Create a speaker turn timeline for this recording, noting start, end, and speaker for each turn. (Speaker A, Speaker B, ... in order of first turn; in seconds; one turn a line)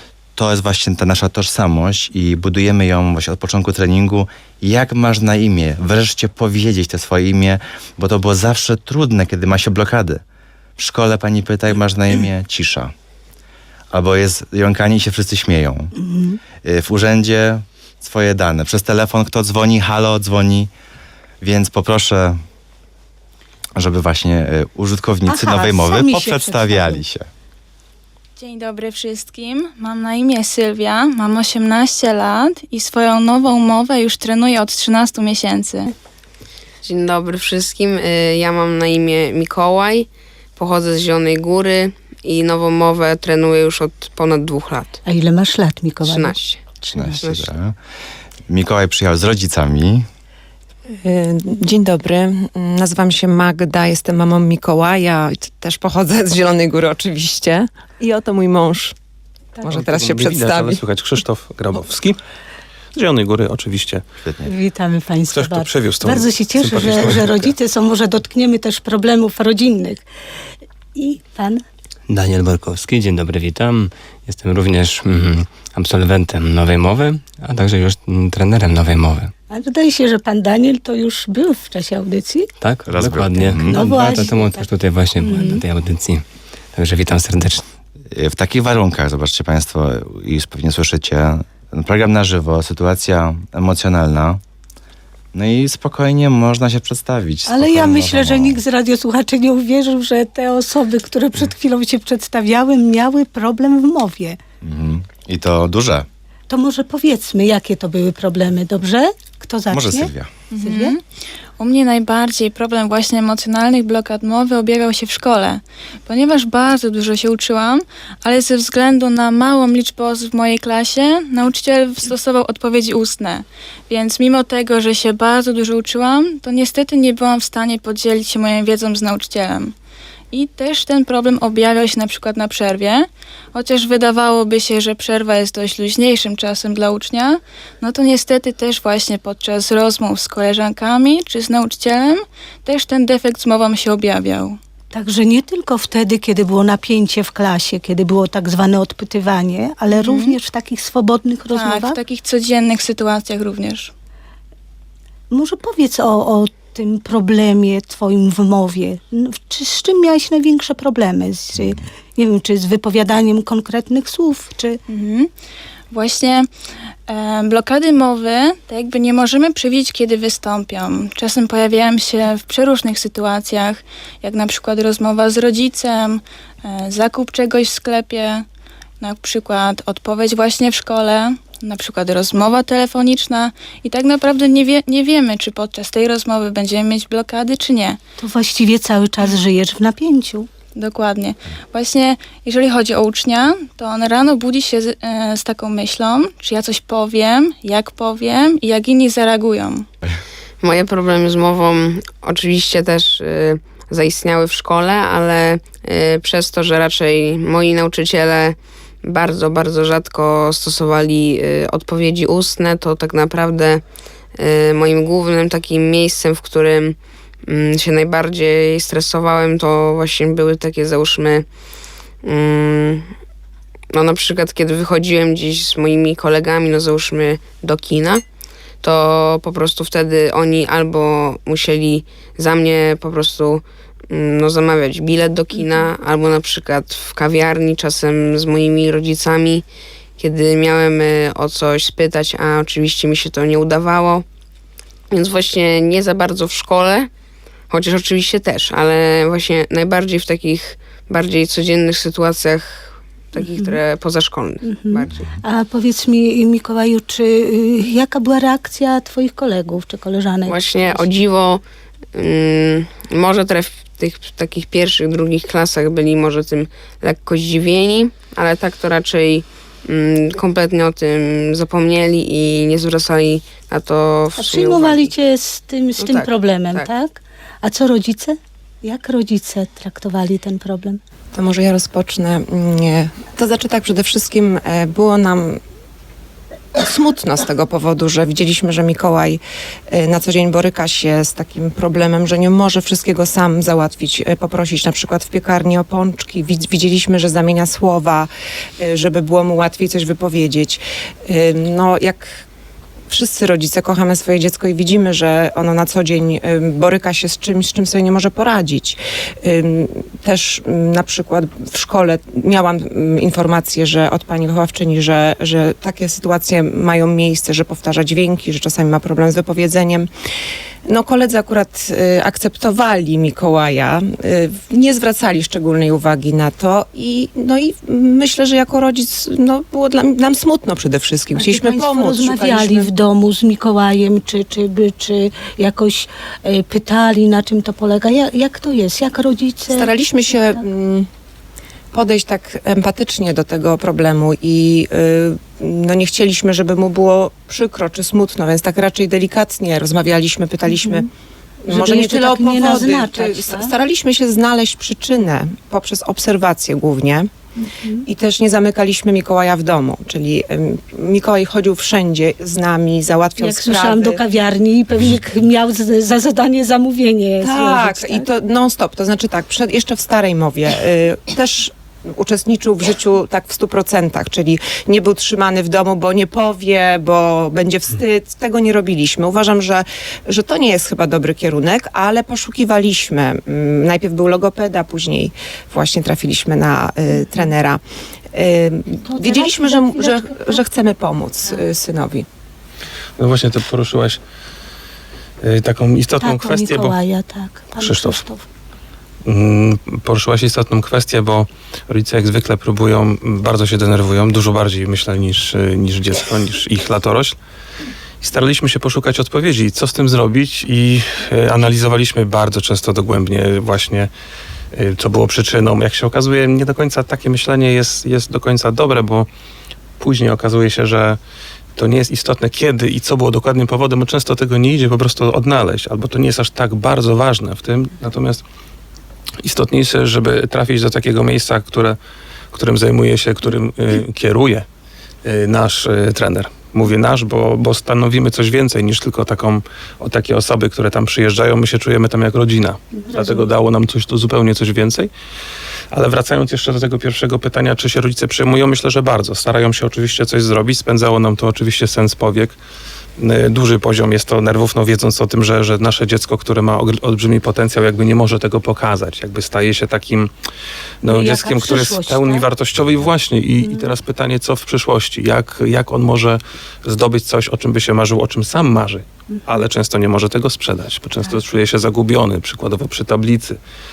Speaker A: 0.3-10.2
Speaker A: 10.8-12.9
Speaker A: 13.9-15.9
Speaker B: 15.9-16.4
Speaker A: 16.6-20.7
Speaker A: 21.4-22.4
Speaker A: 23.8-27.3
Speaker B: 25.2-27.0
Speaker C: 28.4-35.9
Speaker D: 36.8-45.0
Speaker B: 45.0-47.2
Speaker D: 46.0-46.6
Speaker A: 46.9-47.8
Speaker D: 47.2-47.5
Speaker A: 48.5-50.1
Speaker E: 51.0-58.9
Speaker E: 59.6-60.8
Speaker F: 59.7-62.2
Speaker F: 62.9-64.0
Speaker A: 64.2-64.5
Speaker B: 64.4-70.0
Speaker F: 65.3-67.5
Speaker B: 70.9-71.6
Speaker G: 72.1-79.3
Speaker B: 79.5-82.5
Speaker G: 82.6-87.6
Speaker A: 82.8-83.8
Speaker B: 83.7-84.7
Speaker B: 85.2-85.6
Speaker A: 88.1-94.4
Speaker A: 95.3-98.6
Speaker B: 97.5-104.4
Speaker A: 104.6-106.1
Speaker B: 106.5-111.0
Speaker A: 109.7-110.3
Speaker C: 110.5-111.0
Speaker C: 111.6-129.7
Speaker C: 130.3-144.6
Speaker B: 144.9-152.0
Speaker C: 149.9-150.4
Speaker C: 151.5-153.9
Speaker B: 155.3-164.8
Speaker C: 164.9-165.3
Speaker C: 165.9-166.5
Speaker C: 167.1-178.4
Speaker C: 179.0-188.0
Speaker B: 188.2-190.5
Speaker C: 190.7-199.8
Speaker D: 200.6-213.8
Speaker D: 214.4-221.4
Speaker D: 222.2-223.1
Speaker D: 223.9-228.2
Speaker D: 228.8-239.6
Speaker D: 240.2-244.2
Speaker D: 245.1-247.1
Speaker D: 247.7-255.3
Speaker B: 253.3-253.8
Speaker B: 254.6-261.1
Speaker D: 260.4-261.6
Speaker D: 262.1-275.1
Speaker B: 274.4-281.0
Speaker D: 276.0-276.9
Speaker E: 281.3-285.6
Speaker E: 286.8-298.3
Speaker E: 298.8-302.4
Speaker E: 303.1-320.1
Speaker E: 320.9-332.9
Speaker B: 331.3-339.9
Speaker E: 339.7-341.1
Speaker E: 341.9-351.1
Speaker B: 350.7-351.0
Speaker E: 351.6-357.3
Speaker B: 351.7-353.7
Speaker B: 357.6-358.0
Speaker E: 358.1-364.2
Speaker B: 363.4-368.3
Speaker E: 367.4-387.8
Speaker E: 388.3-392.2
Speaker B: 389.1-390.6
Speaker F: 393.2-394.2
Speaker F: 395.4-397.0
Speaker B: 396.2-398.4
Speaker F: 397.8-398.2
Speaker F: 399.2-407.4
Speaker F: 408.2-414.1
Speaker F: 414.7-419.3
Speaker F: 420.0-421.2
Speaker F: 421.8-428.4
Speaker F: 429.4-432.0
Speaker F: 432.5-434.6
Speaker F: 435.2-445.1
Speaker B: 443.0-443.4
Speaker F: 445.9-452.6
Speaker F: 453.2-460.3
Speaker F: 461.0-473.6
Speaker B: 461.1-462.5
Speaker B: 463.6-463.9